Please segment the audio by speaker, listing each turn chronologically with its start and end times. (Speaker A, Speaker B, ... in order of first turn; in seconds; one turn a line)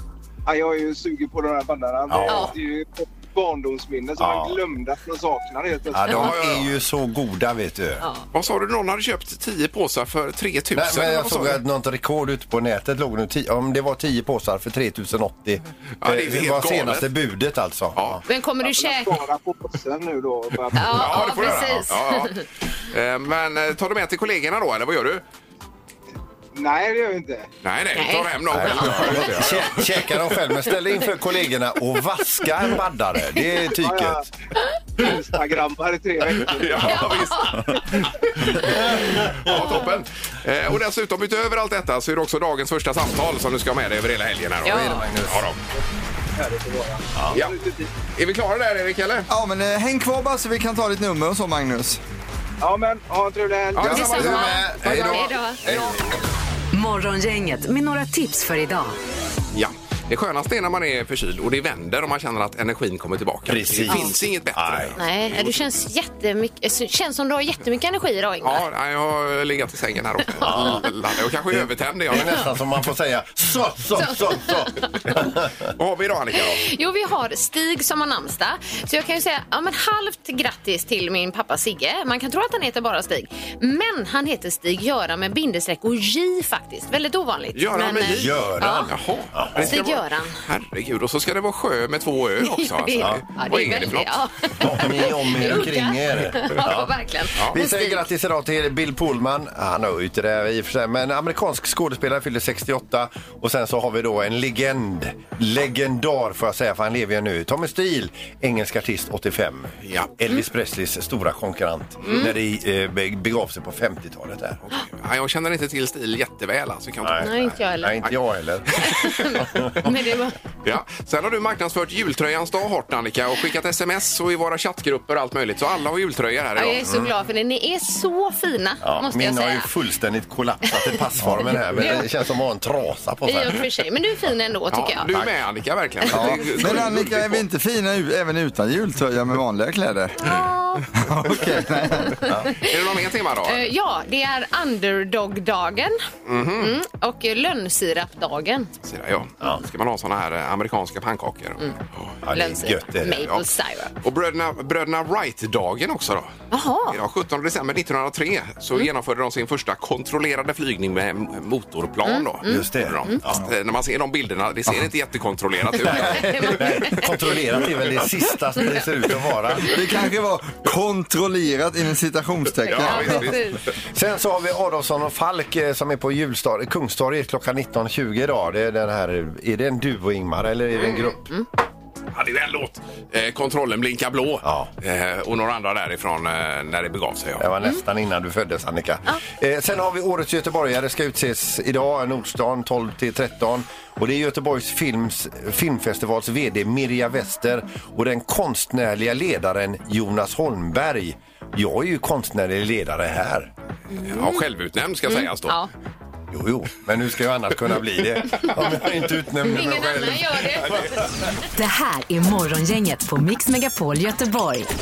Speaker A: 0.5-6.2
Speaker B: 2.1-2.5
Speaker B: 4.2-4.6
Speaker B: 5.9-8.1
Speaker C: 6.1-6.7
Speaker C: 8.3-11.6
Speaker B: 10.8-18.2
Speaker C: 16.0-17.1
Speaker C: 18.0-18.2
Speaker D: 18.3-19.2
Speaker A: 18.6-21.4
Speaker D: 20.8-22.4
Speaker B: 20.9-21.9
Speaker C: 20.9-25.2
Speaker A: 26.6-27.5
Speaker C: 27.6-30.4
Speaker D: 27.9-29.2
Speaker B: 28.5-34.3
Speaker A: 33.8-34.3
Speaker A: 35.0-37.1
Speaker C: 36.4-45.6
Speaker D: 36.9-37.8
Speaker B: 37.2-37.9
Speaker B: 38.5-39.6
Speaker B: 44.6-45.5
Speaker D: 44.6-45.0
Speaker A: 46.4-48.0
Speaker C: 48.1-49.3
Speaker E: 49.3-52.0
Speaker A: 52.6-54.0
Speaker C: 53.8-55.7
Speaker E: 53.8-54.1
Speaker D: 53.9-55.9
Speaker B: 54.0-56.1
Speaker F: 56.7-59.0
Speaker C: 59.5-65.5
Speaker B: 63.5-65.0
Speaker D: 65.0-68.6
Speaker C: 68.4-72.4
Speaker B: 70.4-70.8
Speaker B: 71.5-75.7
Speaker D: 74.0-74.6
Speaker C: 75.8-76.7
Speaker D: 76.6-88.9
Speaker C: 87.5-94.5
Speaker B: 88.1-89.8
Speaker D: 89.6-90.3
Speaker D: 92.4-98.0
Speaker B: 94.6-114.6
Speaker C: 109.9-110.1
Speaker D: 112.0-112.3
Speaker C: 114.7-117.6
Speaker B: 117.0-120.0
Speaker D: 117.2-118.0
Speaker D: 118.8-120.4
Speaker C: 120.6-126.8
Speaker D: 126.6-129.7
Speaker B: 126.8-127.1
Speaker B: 128.8-133.6
Speaker D: 131.4-132.0
Speaker D: 133.2-135.1
Speaker C: 134.7-137.4
Speaker E: 136.1-140.4
Speaker D: 140.2-140.9
Speaker E: 141.0-142.3
Speaker D: 142.0-142.8
Speaker B: 142.2-142.5
Speaker C: 142.6-143.7
Speaker D: 143.5-146.0
Speaker C: 146.3-146.8
Speaker D: 146.6-148.7
Speaker C: 148.8-152.2
Speaker B: 152.2-153.2
Speaker D: 152.3-153.9
Speaker C: 153.2-153.5
Speaker C: 154.0-156.3
Speaker D: 156.5-157.0
Speaker C: 156.9-167.7
Speaker D: 162.1-163.2
Speaker B: 162.4-163.5
Speaker B: 165.8-169.7
Speaker D: 165.9-167.1
Speaker E: 169.7-173.4
Speaker D: 172.7-173.6
Speaker C: 172.8-173.4
Speaker B: 172.9-173.3
Speaker B: 173.9-181.3
Speaker C: 182.1-187.5
Speaker B: 184.4-184.7
Speaker B: 187.4-203.5
Speaker D: 203.9-204.4
Speaker C: 204.1-205.7
Speaker D: 205.1-205.7
Speaker B: 206.3-211.1
Speaker C: 208.3-208.7
Speaker D: 209.4-211.0
Speaker F: 211.6-214.7